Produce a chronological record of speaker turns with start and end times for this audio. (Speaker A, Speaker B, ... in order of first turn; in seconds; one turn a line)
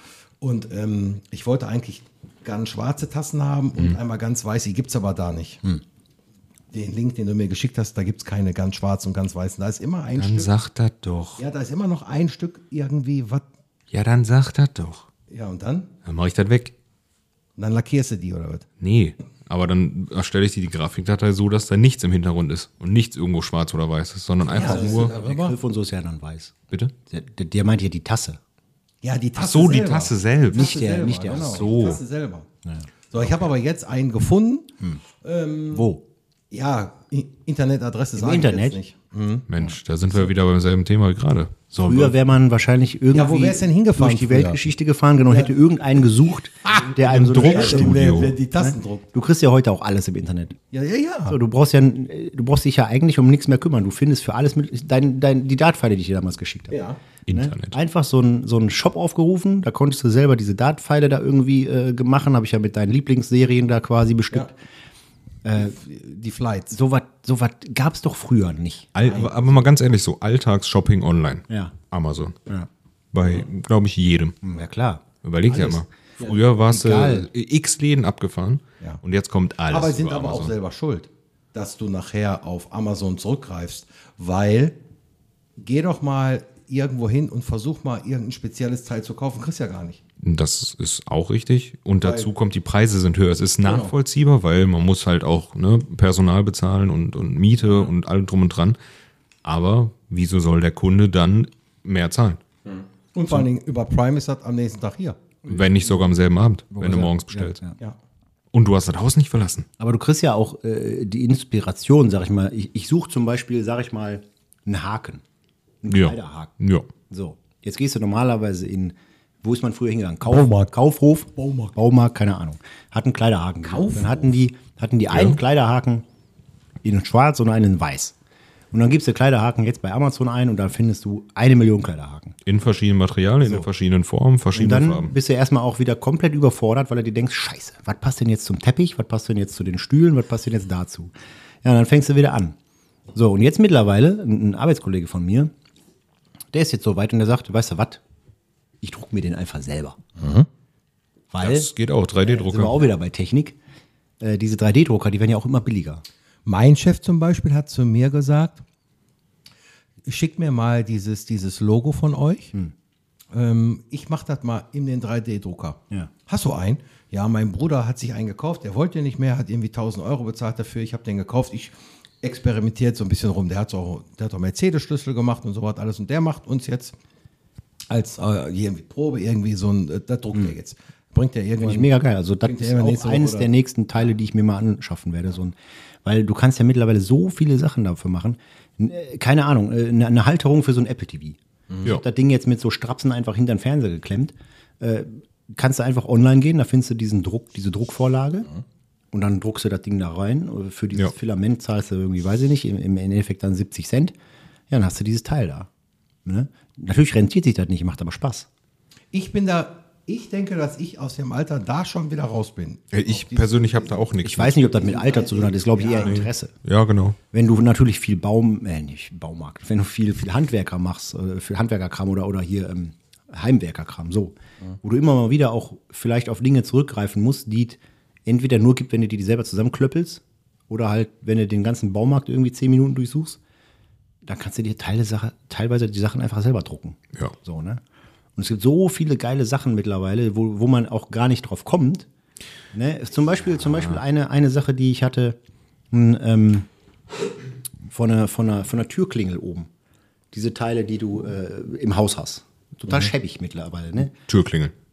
Speaker A: 0.4-5.6
Speaker A: 6.7-10.5
Speaker B: 10.2-11.4
Speaker A: 11.4-13.4
Speaker B: 13.9-15.1
Speaker A: 15.3-15.9
Speaker B: 16.0-16.7
Speaker A: 17.6-18.6
Speaker B: 18.8-25.1
Speaker A: 24.5-25.6
Speaker C: 24.5-28.4
Speaker A: 29.0-32.5
Speaker B: 29.4-32.0
Speaker C: 30.5-31.8
Speaker A: 33.1-35.9
Speaker C: 35.7-36.0
Speaker A: 36.5-39.5
Speaker C: 38.2-38.8
Speaker B: 39.5-42.1
Speaker C: 41.7-50.5
Speaker A: 43.1-44.6
Speaker A: 45.3-45.5
Speaker A: 46.6-49.1
Speaker B: 47.0-48.3
Speaker A: 50.7-51.4
Speaker C: 51.3-56.8
Speaker A: 56.7-57.0
Speaker B: 57.3-57.8
Speaker C: 57.3-64.6
Speaker C: 65.4-65.8
Speaker A: 65.5-66.8
Speaker C: 66.7-68.9
Speaker B: 68.9-72.3
Speaker A: 69.0-69.6
Speaker C: 71.5-71.7
Speaker B: 73.1-74.4
Speaker C: 74.4-75.0
Speaker B: 75.2-80.5
Speaker A: 75.5-76.4
Speaker C: 76.6-77.3
Speaker A: 79.7-84.8
Speaker A: 85.6-90.0
Speaker B: 90.2-98.8
Speaker A: 92.0-92.3
Speaker A: 93.6-93.9
Speaker A: 97.6-97.9
Speaker B: 99.4-102.4
Speaker A: 102.7-106.0
Speaker B: 105.5-107.6
Speaker A: 106.8-108.0
Speaker B: 108.5-109.7
Speaker C: 109.8-115.2
Speaker C: 115.8-116.5
Speaker B: 115.9-116.9
Speaker C: 117.1-126.0
Speaker A: 120.2-120.7
Speaker A: 121.3-121.7
Speaker A: 123.6-124.4
Speaker B: 125.1-125.4
Speaker C: 126.8-128.1
Speaker C: 128.7-132.3
Speaker B: 132.4-135.1
Speaker C: 134.5-141.1
Speaker C: 141.6-142.6
Speaker C: 143.1-145.5
Speaker C: 146.5-148.0
Speaker C: 148.8-150.0
Speaker A: 150.2-150.5
Speaker C: 151.3-151.7
Speaker B: 151.4-152.8
Speaker C: 152.2-153.6
Speaker C: 154.2-156.0
Speaker A: 156.4-158.6
Speaker A: 160.0-162.5
Speaker A: 163.3-176.9
Speaker A: 177.9-183.5
Speaker C: 181.6-198.5
Speaker C: 199.1-204.1
Speaker C: 204.7-205.7
Speaker C: 206.2-208.5
Speaker A: 209.1-216.2
Speaker B: 212.9-214.5
Speaker C: 214.2-216.5
Speaker B: 216.0-217.2
Speaker C: 217.3-233.4
Speaker C: 234.2-237.8
Speaker C: 238.3-242.1
Speaker C: 242.7-245.4
Speaker C: 245.9-246.7
Speaker C: 247.9-249.7
Speaker C: 250.3-254.1
Speaker B: 254.3-254.7